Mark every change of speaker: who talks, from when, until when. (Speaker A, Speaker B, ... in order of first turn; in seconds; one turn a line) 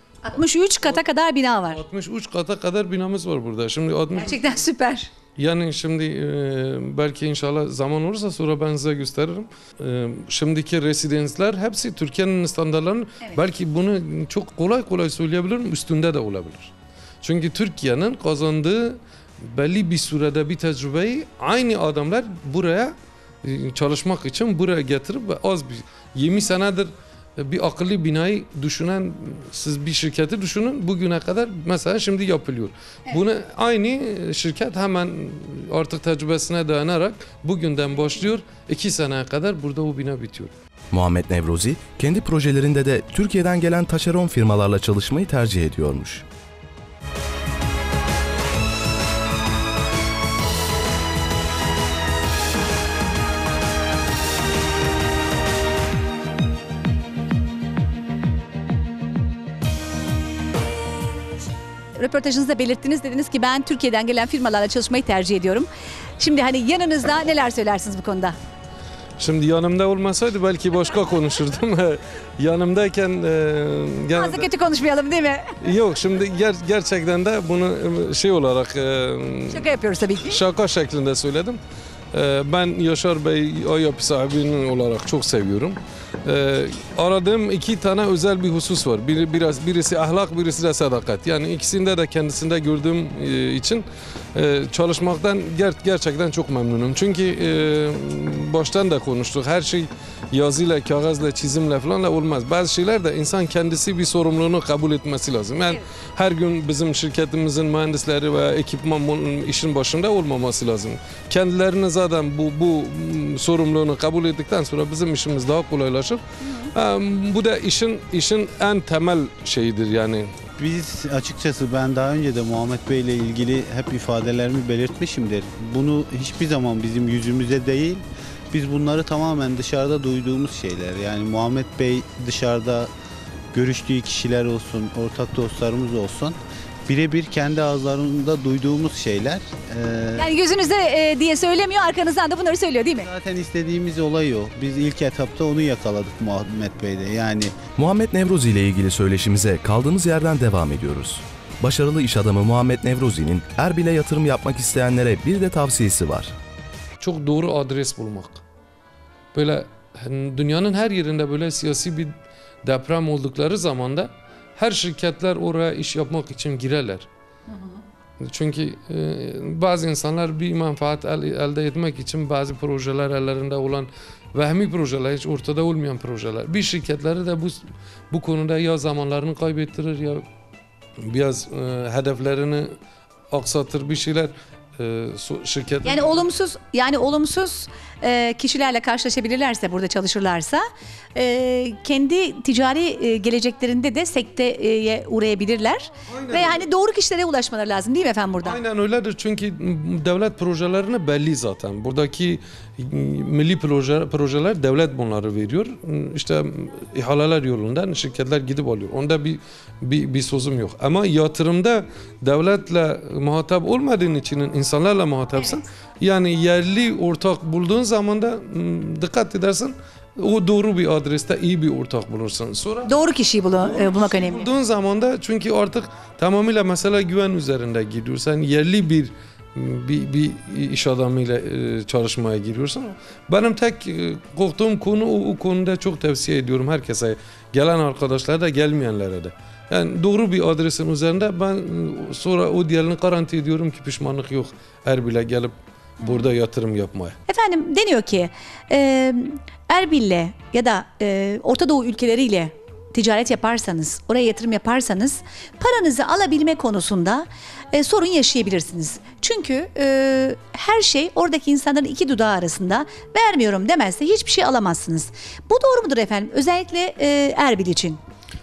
Speaker A: 0.2-1.8
Speaker B: 1.7-4.5
Speaker A: 4.2-5.1
Speaker B: 5.4-40.5
Speaker C: 40.9-46.2
Speaker A: 62.0-68.4
Speaker B: 69.2-74.5
Speaker A: 74.1-75.5
Speaker B: 75.6-79.7
Speaker A: 79.5-80.4
Speaker B: 80.2-81.6
Speaker B: 82.1-116.2
Speaker B: 116.7-120.3
Speaker D: 120.6-132.9
Speaker D: 133.5-140.3
Speaker A: 140.2-143.1
Speaker D: 143.0-147.6
Speaker C: 147.8-156.3
Speaker B: 157.0-158.4
Speaker B: 159.3-162.1
Speaker B: 162.6-167.1
Speaker B: 168.2-180.2
Speaker B: 181.0-182.7
Speaker B: 183.3-186.1
Speaker A: 185.8-190.6
Speaker A: 191.2-198.6
Speaker B: 196.1-196.7
Speaker B: 198.4-222.9
Speaker A: 215.4-215.6
Speaker A: 222.8-224.5
Speaker B: 223.6-247.2
Speaker A: 246.0-246.3
Speaker A: 247.3-268.0